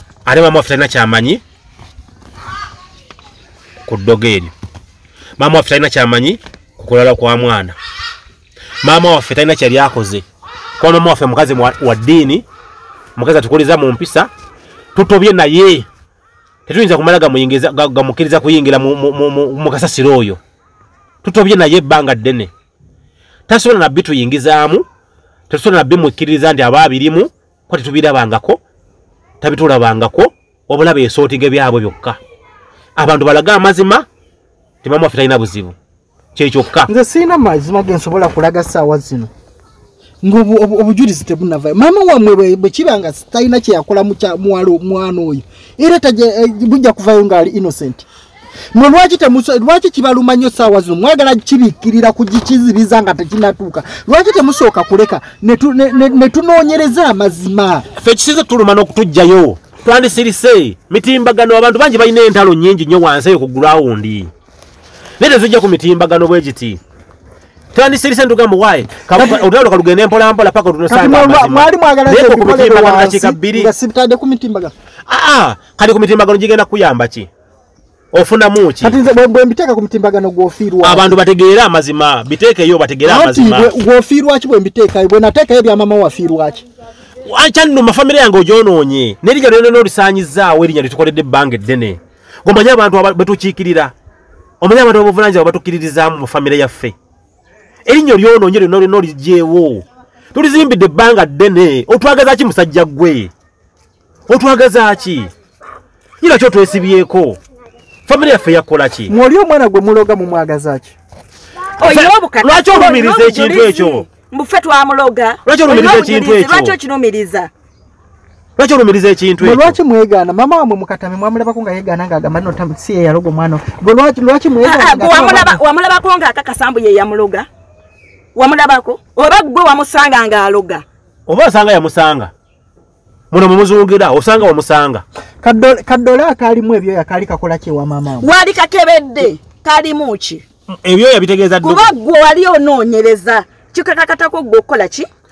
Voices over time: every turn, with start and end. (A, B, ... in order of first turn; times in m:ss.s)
0:00.3-0:01.4 A
0:03.9-0:04.5 A
0:05.4-0:07.8 A
0:08.8-0:10.2 A
0:10.8-0:12.4 A
0:13.2-0:14.3 A
0:15.0-0:15.9 A
0:16.7-0:20.4 A
0:21.2-0:22.5 A
0:23.5-0:24.8 A
0:25.5-0:28.6 A
0:29.4-0:32.2 A
0:33.0-0:34.1 A
0:34.8-0:35.8 A
0:36.4-0:36.9 A
0:36.9-0:39.3 B
0:40.2-0:48.1 B
0:48.7-0:57.9 B
0:58.0-1:04.3 A
1:05.2-1:06.8 A
1:07.7-1:13.7 A
1:09.1-1:09.5 B
1:10.9-1:14.7 B
1:15.1-1:17.3 A
1:18.1-1:19.0 A
1:18.8-1:21.2 B
1:20.8-1:23.7 A
1:23.0-1:26.6 B
1:27.2-1:33.9 A
1:34.6-1:37.0 A
1:37.9-1:43.3 A
1:44.3-1:45.3 A
1:46.2-1:47.4 A
1:48.1-1:49.1 A
1:49.1-1:51.0 B
1:51.8-1:57.5 C
1:51.8-1:54.0 A
1:55.4-1:56.8 A
1:58.6-1:59.8 A
1:59.4-2:05.6 B
2:04.6-2:07.5 C
2:08.4-2:10.8 C
2:11.3-2:12.3 A
2:13.3-2:15.0 A
2:15.4-2:18.3 B
2:18.2-2:20.4 C
2:20.8-2:21.9 A
2:21.6-2:25.1 C